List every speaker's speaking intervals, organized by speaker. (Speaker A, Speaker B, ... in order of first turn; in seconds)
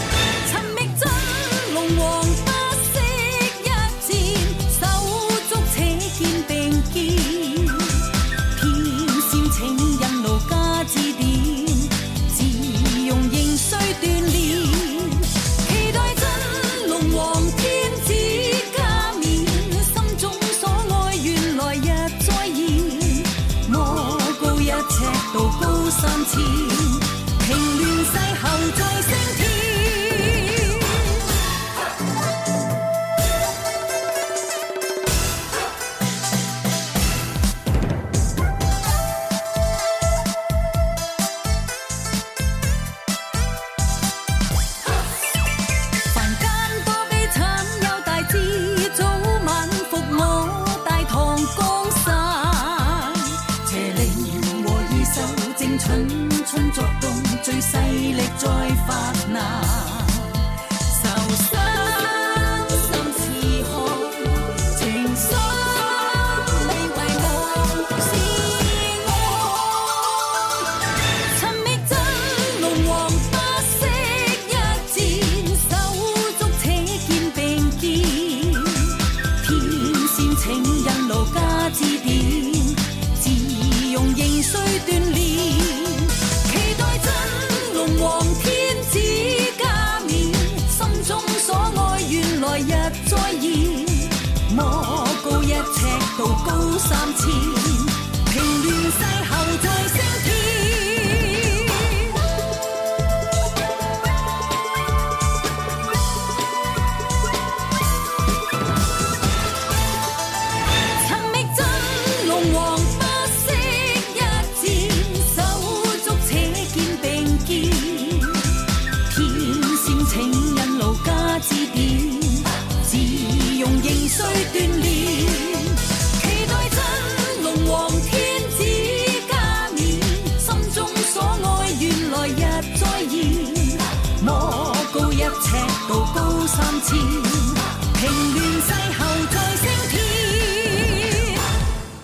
Speaker A: 0.4-31.2, 46.1-70.0, 71.3-102.2, 111.0-118.5, 119.1-141.4